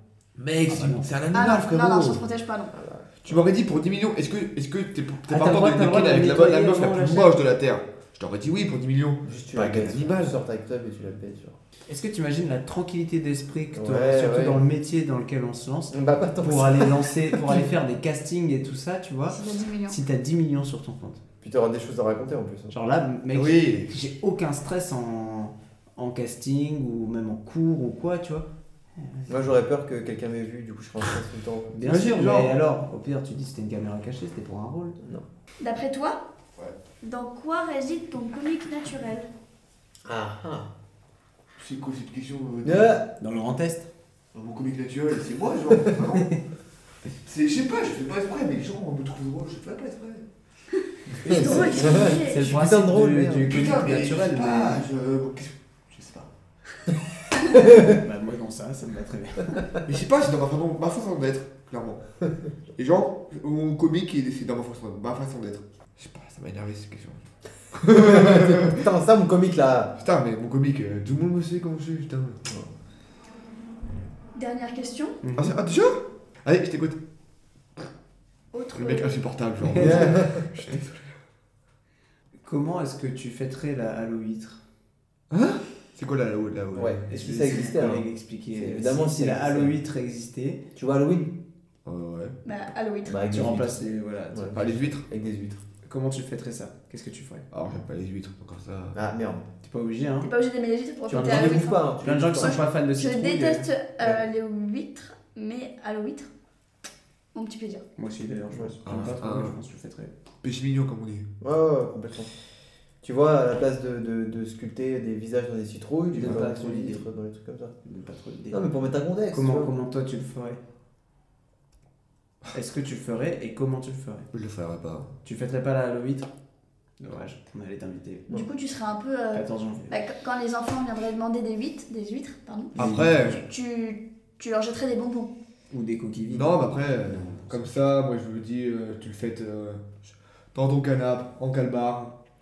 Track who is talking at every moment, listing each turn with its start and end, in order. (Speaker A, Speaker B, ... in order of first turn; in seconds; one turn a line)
Speaker A: 0.4-2.2
Speaker B: 0.7-1.1
Speaker C: 1.3-2.7
Speaker D: 2.7-3.5
Speaker A: 3.2-10.4
Speaker B: 5.3-7.3
Speaker D: 9.2-11.6
Speaker B: 11.9-21.2
Speaker D: 13.7-14.7
Speaker D: 15.9-17.7
Speaker C: 19.3-20.0
Speaker D: 21.4-22.7
Speaker B: 22.7-29.4
Speaker A: 23.3-23.9
Speaker D: 29.3-31.8
Speaker B: 31.7-35.0
Speaker A: 31.9-32.6
Speaker D: 35.0-35.3
Speaker C: 35.6-36.3
Speaker C: 37.0-39.3
Speaker D: 40.0-40.7
Speaker A: 41.6-43.0
Speaker D: 42.6-43.1
Speaker B: 43.2-43.9
Speaker A: 44.3-46.4
Speaker A: 47.2-50.3
Speaker D: 51.1-53.8
Speaker B: 51.2-54.8
Speaker C: 51.3-52.6
Speaker A: 53.5-56.3
Speaker D: 57.5-57.9
Speaker B: 57.6-59.7
Speaker A: 59.9-62.0
Speaker A: 62.8-68.8
Speaker D: 67.9-70.0
Speaker A: 70.0-72.4
Speaker D: 72.5-72.7
Speaker C: 74.3-75.2
Speaker B: 75.2-75.6
Speaker A: 75.4-77.0
Speaker C: 78.5-79.3
Speaker A: 78.7-81.2
Speaker B: 79.6-80.1
Speaker D: 79.8-80.5
Speaker B: 82.4-84.6
Speaker A: 85.3-87.9
Speaker D: 86.7-89.8
Speaker B: 87.1-90.6
Speaker D: 90.8-91.3
Speaker A: 91.8-92.4
Speaker C: 92.5-93.2
Speaker D: 93.1-95.6
Speaker B: 93.3-94.8
Speaker A: 94.5-95.1
Speaker B: 95.8-97.5
Speaker A: 97.5-99.0
Speaker D: 98.9-99.5
Speaker B: 99.6-100.3
Speaker C: 100.2-106.3
Speaker D: 101.1-102.6
Speaker B: 101.1-103.7
Speaker C: 107.3-107.9
Speaker B: 108.0-110.1
Speaker A: 108.8-109.6
Speaker A: 110.4-111.3
Speaker D: 111.4-112.3
Speaker D: 113.0-117.8
Speaker B: 116.1-117.0
Speaker B: 117.8-118.6
Speaker D: 118.5-119.7
Speaker B: 119.3-120.6
Speaker B: 122.5-124.3
Speaker A: 124.3-125.1
Speaker B: 125.2-126.3
Speaker B: 127.0-128.3
Speaker C: 128.3-135.3
Speaker B: 129.3-129.9
Speaker A: 132.8-133.4
Speaker B: 132.8-133.1
Speaker B: 135.7-136.6
Speaker A: 136.3-142.2
Speaker B: 137.1-137.6